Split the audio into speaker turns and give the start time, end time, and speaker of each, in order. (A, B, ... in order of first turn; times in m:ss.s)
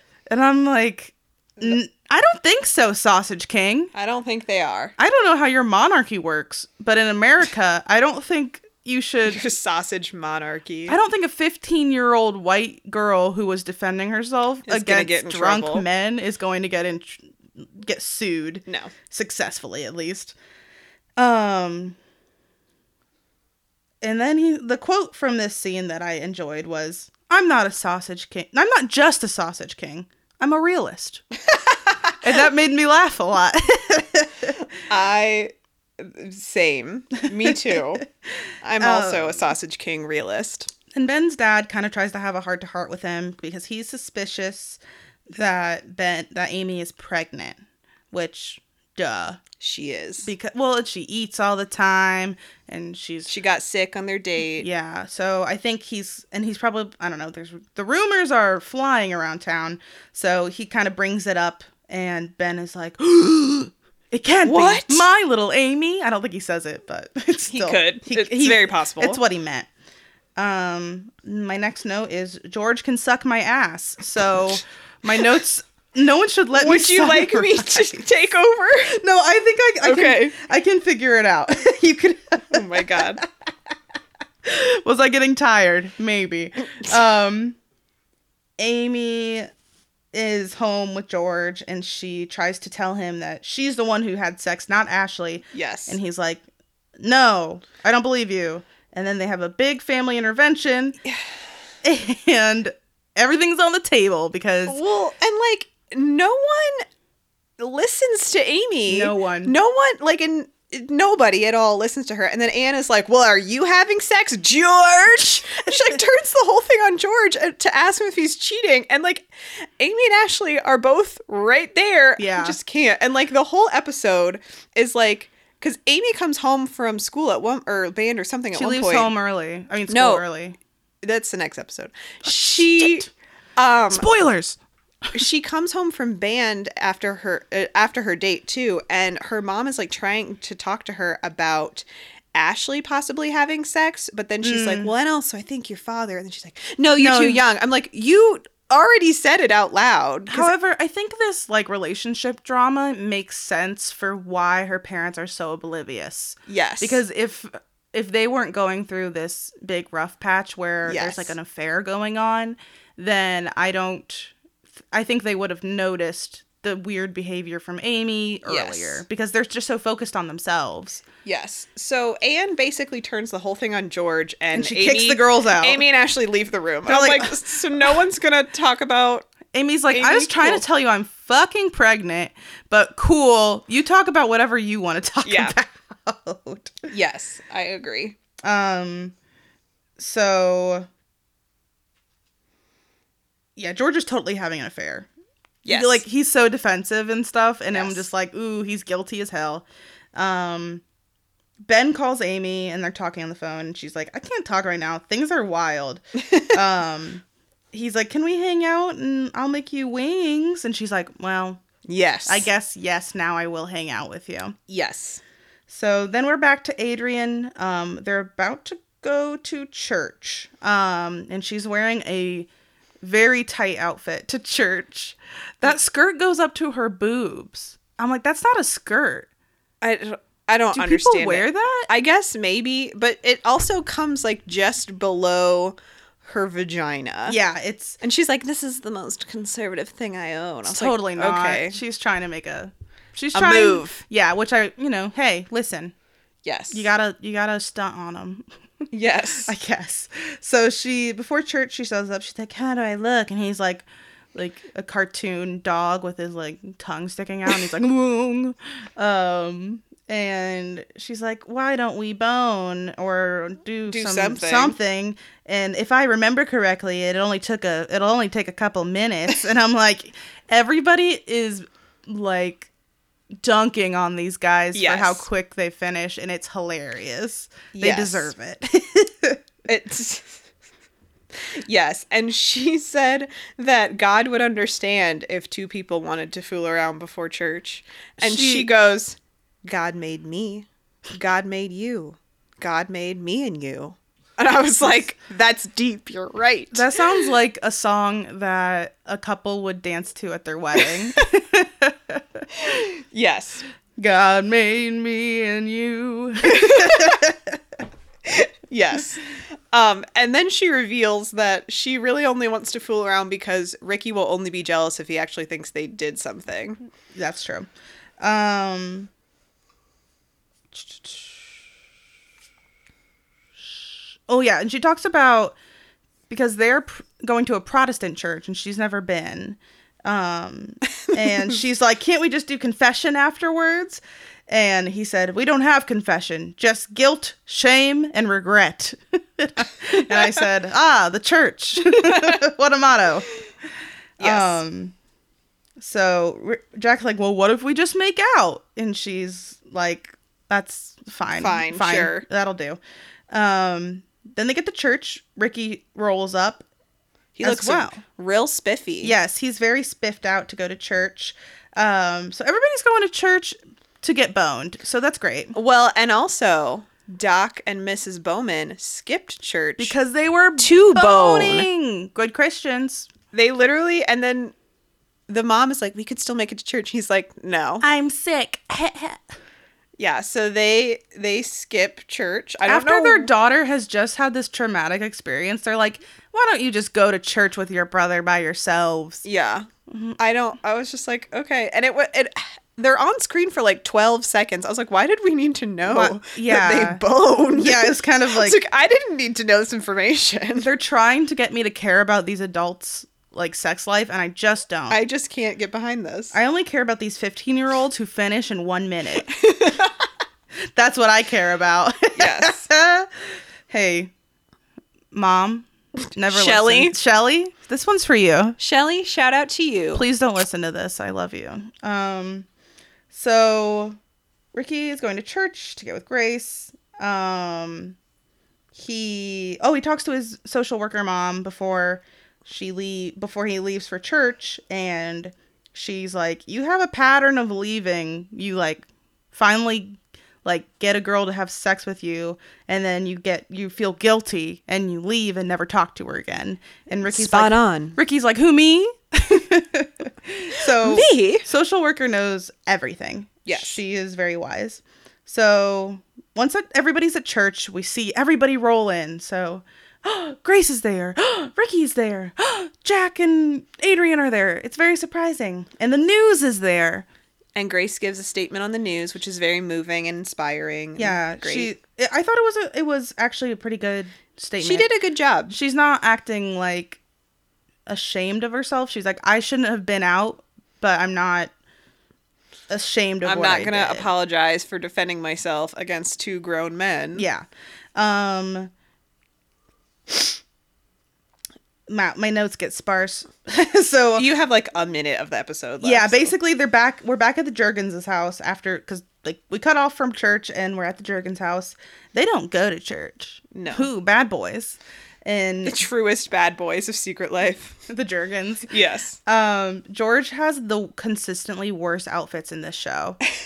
0:00.3-0:03.9 A
0:03.9-0:04.9 B
0:05.0-0:09.4 A
0:09.2-0:11.0 B
0:10.9-0:20.3 A
0:14.6-0:15.9 B
0:18.7-0:18.9 B
0:21.2-0:22.0 A
0:24.0-0:31.2 A
0:32.2-0:34.6 A
0:34.9-0:38.0 B
0:37.4-0:37.8 A
0:38.6-0:40.7 B
0:38.8-0:39.5 A
0:40.9-0:47.6 A
0:48.1-0:49.4 A
0:49.6-0:50.3 B
0:50.2-0:53.3 A
0:53.3-0:54.7 B
0:54.6-1:09.7 A
1:04.4-1:05.1 B
1:07.5-1:09.2 B
1:10.4-1:18.0 A
1:16.5-1:19.0 B
1:18.9-1:23.2 A
1:19.8-1:20.3 B
1:22.5-1:23.2 B
1:24.4-1:27.6 A
1:28.6-1:29.5 A
1:30.1-1:36.4 A
1:35.5-1:36.0 B
1:37.0-1:41.0 A
1:41.8-1:44.8 A
1:44.6-1:46.8 B
1:47.6-1:59.3 B
1:48.9-1:49.5 A
1:59.8-2:09.1 B
2:02.2-2:02.6 A
2:08.5-2:10.6 A
2:09.9-2:10.2 B
2:11.0-2:14.1 B
2:12.2-2:13.1 A
2:13.9-2:14.6 A
2:15.1-2:30.5 B
2:24.4-2:24.9 A
2:27.0-2:27.4 A
2:30.3-2:44.3 A
2:36.5-2:37.0 B
2:40.8-2:41.3 B
2:44.9-2:51.0 A
2:48.4-2:49.0 B
2:51.2-2:59.3 B
2:54.5-2:55.8 A
2:56.8-2:57.4 A
2:59.5-3:06.9 A
2:59.9-3:00.6 B
3:05.2-3:05.6 B
3:06.9-3:08.2 B
3:08.4-3:09.1 A
3:10.0-3:10.9 A
3:13.6-3:15.1 A
3:15.6-3:16.0 B
3:15.7-3:20.8 A
3:17.7-3:18.1 B
3:21.6-3:31.6 A
3:26.3-3:26.5 B
3:31.8-3:32.5 B
3:32.3-3:34.6 A
3:34.7-3:35.2 B
3:35.7-3:42.5 A
3:43.0-3:49.3 A
3:49.8-3:57.4 B
3:50.7-3:51.9 A
3:57.3-3:58.0 A
3:58.0-4:01.8 B
4:00.6-4:05.9 A
4:03.3-4:04.0 B
4:06.4-4:06.9 B
4:06.7-4:08.9 A
4:08.9-4:09.5 B
4:09.4-4:32.7 A
4:23.9-4:24.8 B
4:33.4-4:39.4 A
4:34.7-4:35.2 B
4:37.7-4:38.3 B
4:39.6-4:40.4 B
4:41.6-4:57.0 B
4:48.2-4:48.7 A
4:56.7-5:02.4 A
5:02.5-5:03.6 B
5:04.0-5:07.6 A
5:06.4-5:07.3 B
5:08.3-5:16.8 B
5:17.1-5:17.7 A
5:18.2-5:19.1 A
5:20.7-5:21.4 A
5:23.6-5:25.6 A
5:26.3-5:43.3 A
5:42.0-5:42.4 B
5:44.2-5:44.9 A
5:44.2-5:44.6 B
5:45.8-5:52.8 A
5:51.4-5:52.2 B
5:53.3-5:56.6 A
5:57.4-5:59.1 B
5:57.4-5:58.0 A
5:59.0-6:05.5 A
6:05.5-6:10.0 B
6:09.8-6:13.1 A
6:10.6-6:11.7 B
6:13.3-6:14.5 B
6:15.3-6:17.8 B
6:17.8-6:19.2 A
6:20.0-6:23.3 B
6:22.6-6:29.2 A
6:29.2-6:40.7 B
6:29.9-6:30.2 A
6:35.8-6:37.0 A
6:37.5-6:38.6 A
6:40.6-6:45.0 A
6:44.9-6:46.4 B
6:46.3-6:49.3 A
6:49.3-6:49.9 B
6:50.7-6:53.1 A
6:52.2-6:52.6 B
6:53.7-6:54.1 A
6:55.1-6:58.6 A
6:56.2-6:57.0 B
6:58.6-7:00.0 B
6:59.9-7:02.5 A
7:03.1-7:04.0 A
7:04.5-7:08.0 A
7:08.7-7:47.0 A
7:27.0-7:28.0 B
7:30.5-7:31.5 B
7:33.4-7:33.8 B
7:47.6-7:51.7 B
7:51.0-7:54.9 A
7:54.6-7:55.5 B
7:55.5-7:57.0 A
7:57.9-8:01.5 A
8:02.7-8:04.1 A
8:03.2-8:07.3 B
8:07.2-8:08.7 A
8:11.9-8:14.2 A
8:14.1-8:16.3 B
8:15.8-8:25.8 A
8:23.5-8:23.9 B
8:25.6-8:27.8 B
8:27.9-8:28.7 A
8:28.7-8:29.2 B
8:29.2-8:33.2 A